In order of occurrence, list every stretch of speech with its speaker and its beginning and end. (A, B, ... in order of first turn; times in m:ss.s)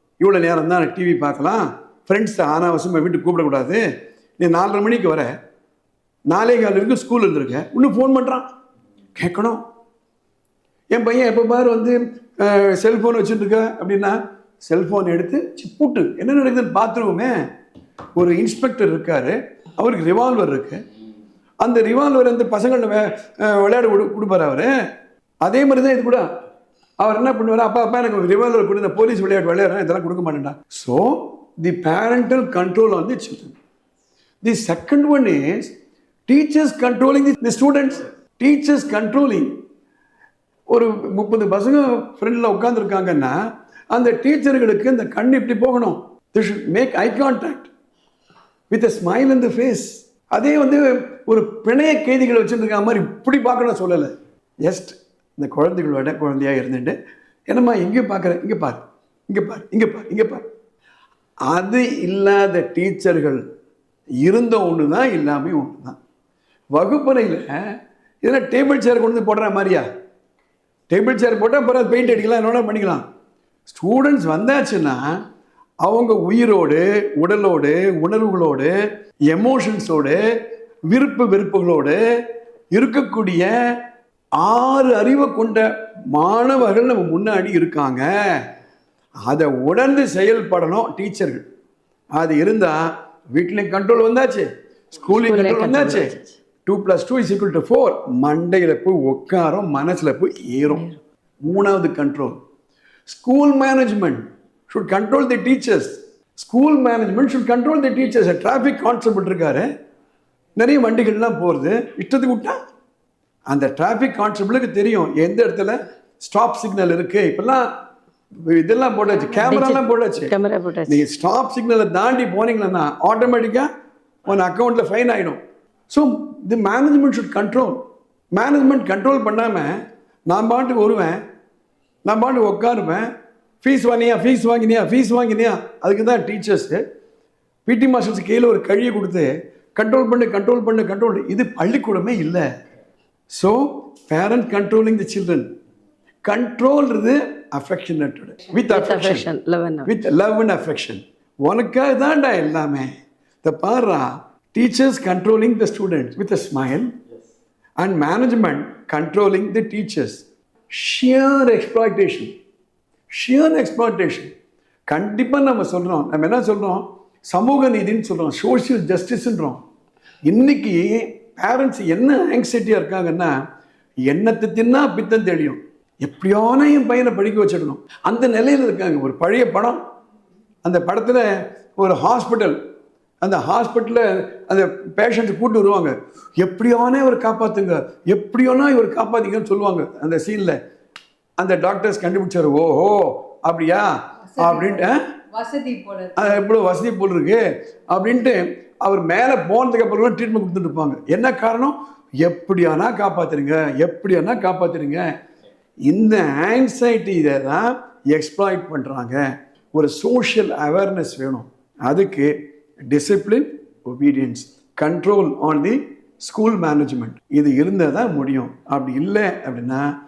0:00.2-0:03.8 A
0:04.4-0:05.3 A
0:06.3-0:08.4 A
0:09.2-0:09.6 A
0:10.9-0:17.4 A
0:18.2-0:20.8 A
0:21.6-0:24.7 A
0:25.4-0:26.3 A
0:27.0-0:33.6 A
0:34.4-0:35.7 A
0:36.3-0:39.5 A
0:40.7-0:43.4 A
0:43.9-0:47.7 A
0:48.7-0:54.1 A
0:54.6-0:57.0 A
0:57.5-1:00.4 A
1:01.5-1:03.4 A
1:04.2-1:06.0 A
1:06.7-1:07.5 A
1:08.2-1:09.9 A
1:10.9-1:13.0 A
1:13.7-1:15.2 A
1:15.8-1:18.7 A
1:19.3-1:20.2 A
1:20.9-1:22.0 A
1:22.7-1:23.5 A
1:24.4-1:28.4 A
1:29.2-1:31.4 A
1:32.1-1:36.1 A
1:35.1-1:36.3 B
1:36.6-1:40.8 A
1:40.7-1:41.0 B
1:41.4-1:42.4 A
1:43.1-1:49.7 A
1:50.6-1:52.6 A
1:53.5-1:57.7 A
1:58.4-2:00.3 A
1:59.0-2:01.0 B
2:00.9-2:03.7 A
2:04.2-2:05.4 A
2:05.9-2:07.8 A
2:08.3-2:11.2 A
2:12.0-2:13.1 A
2:13.6-2:16.8 A
2:17.6-2:22.5 A
2:23.3-2:25.5 A
2:26.2-2:29.3 A
2:28.6-2:29.9 B
2:29.8-2:32.9 A
2:33.4-2:36.9 A
2:37.8-2:42.3 A
2:43.1-2:44.3 A
2:44.9-2:49.6 A
2:50.2-2:53.3 A
2:54.1-2:59.8 A
3:00.6-3:02.6 A
3:03.2-3:10.6 A
3:11.4-3:15.0 A
3:14.4-3:16.3 C
3:16.2-3:25.1 A
3:25.8-3:32.3 A
3:32.8-3:39.9 A